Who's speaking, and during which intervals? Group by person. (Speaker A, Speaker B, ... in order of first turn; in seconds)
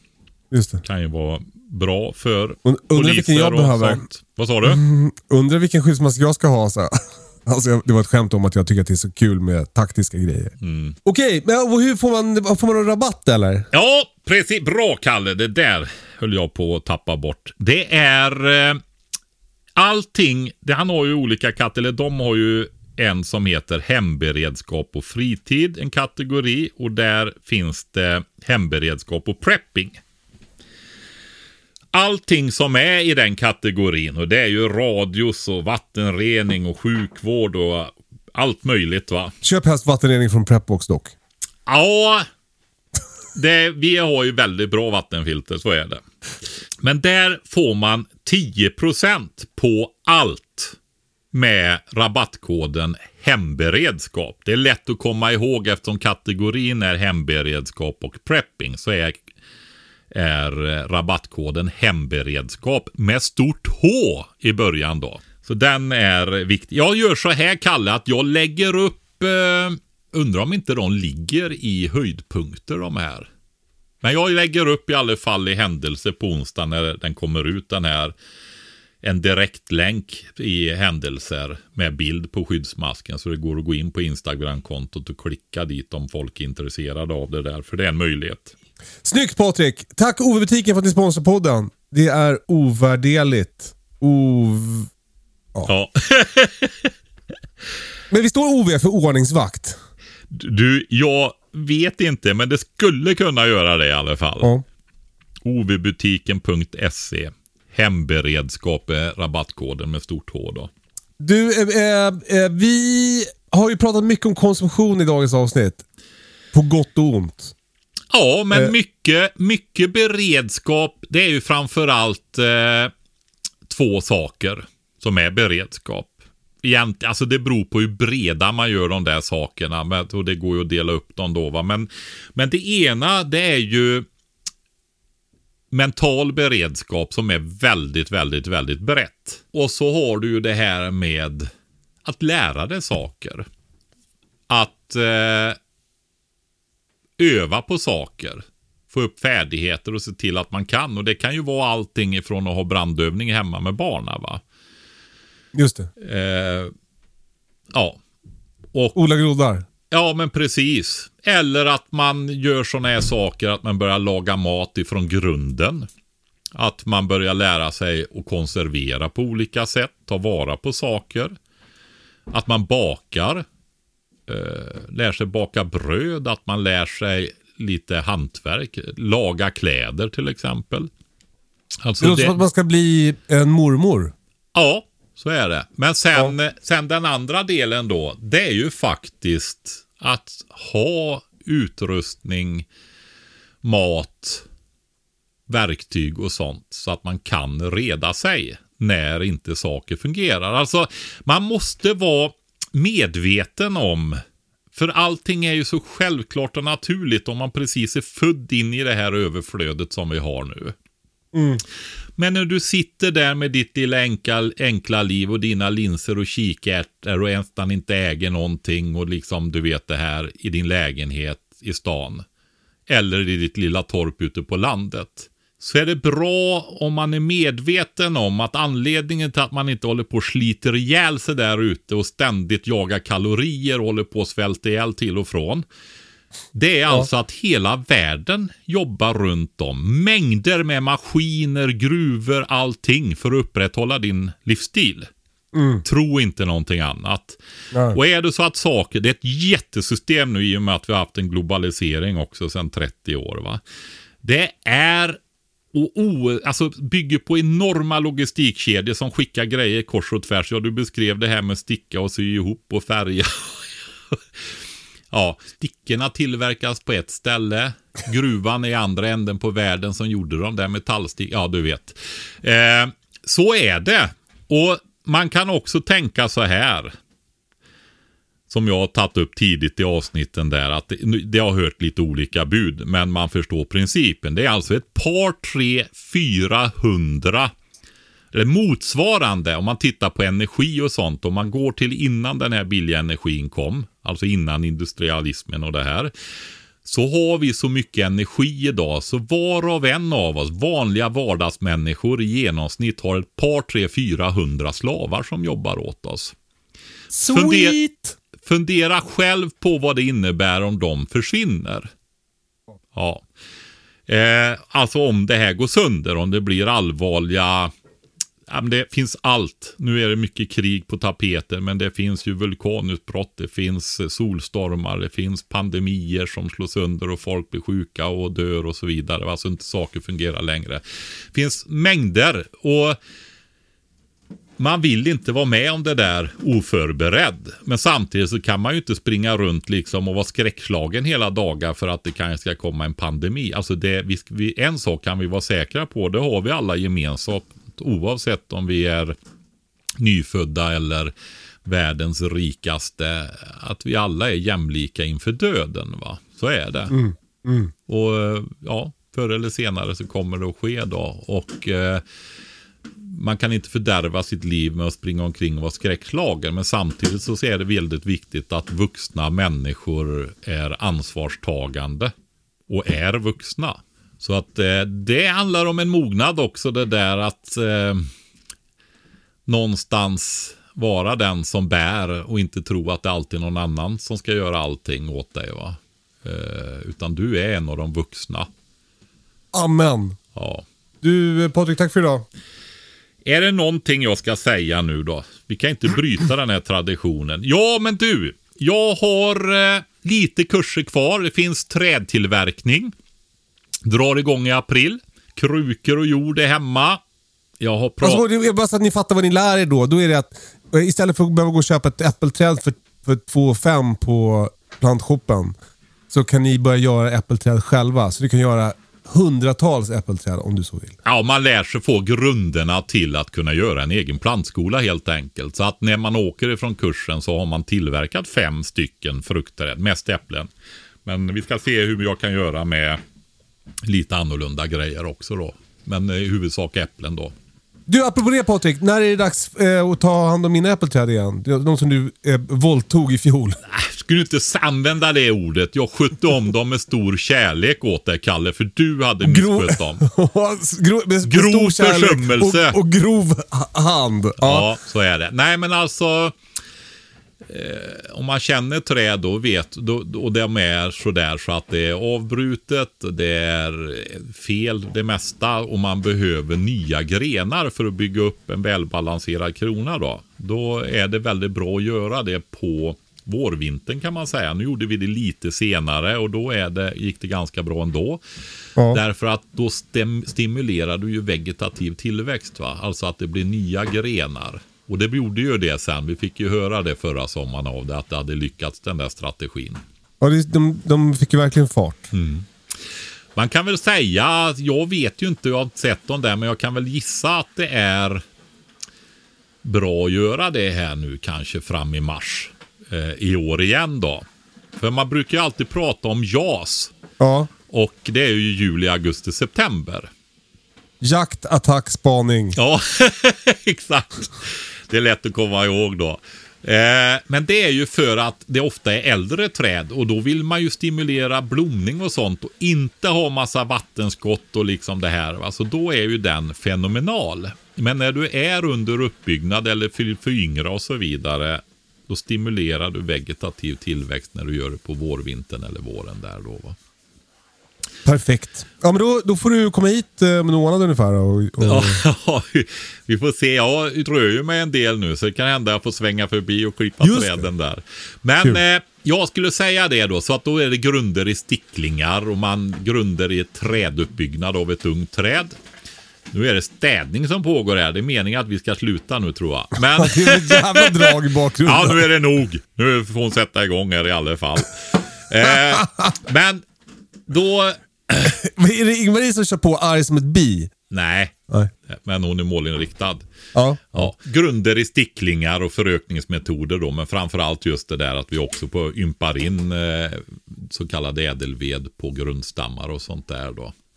Speaker A: 0.5-0.8, 2.6-4.0, 4.6-13.7, 39.4-41.1, 89.0-94.9, 98.1-99.8, 111.2-115.8, 116.5-117.5, 155.6-155.9, 158.9-159.7, 182.0-184.1, 211.3-211.6, 245.5-245.8, 247.7-248.0, 307.1-308.2, 356.9-357.7, 389.5-390.2, 391.0-392.2, 408.0-415.6, 416.1-421.0, 437.9-443.6, 449.2-454.7, 490.2-492.1, 507.2-507.5, 511.0-512.6, 538.0-542.0, 547.0-547.5, 559.8-562.0, 568.2-570.7, 573.5-574.1
Speaker B: 0.8-4.8, 10.6-11.0, 13.7-18.8, 19.8-30.0, 31.9-39.3, 41.7-42.3, 43.4-46.0, 46.8-50.8, 51.3-59.2, 60.1-73.3, 74.0-78.1, 79.0-88.5, 95.7-96.9, 100.3-104.5, 105.4-110.7, 118.1-122.9, 123.7-134.1, 135.7-141.5, 142.1-143.5, 144.5-145.6, 147.2-154.4, 156.0-156.7, 157.7-158.0, 158.7-159.0, 159.9-165.9, 166.5-171.4, 172.3-173.4, 174.3-180.9, 181.8-182.4, 184.6-192.7, 193.6-194.4, 195.5-204.2, 204.7-210.8, 212.2-222.2, 222.9-235.7, 236.5-245.1, 245.8-247.4, 247.9-253.6, 254.2-255.2, 255.7-264.6, 265.1-276.9, 278.5-287.5, 288.3-296.1, 296.9-306.4, 307.3-307.8, 308.4-311.9, 312.9-313.2, 314.1-317.7, 318.5-333.0, 334.6-349.1, 350.0-351.1, 351.6-356.9, 357.9-362.0, 363.0-372.1, 372.7-378.1, 379.5-388.5, 390.4-390.6, 393.2-402.9, 403.9-407.0, 407.6-408.2, 421.1-430.5, 431.1-433.0, 433.8-437.3, 443.7-450.0, 451.2-452.8, 454.4-456.4, 457.5-478.2, 478.9-489.8, 492.1-492.8, 493.4-498.2, 499.6-504.2, 504.8-506.9, 507.7-510.1, 512.6-536.8, 541.6-555.5, 556.3-566.6, 567.3-568.4, 570.9-571.4, 571.9-573.2, 573.9-583.8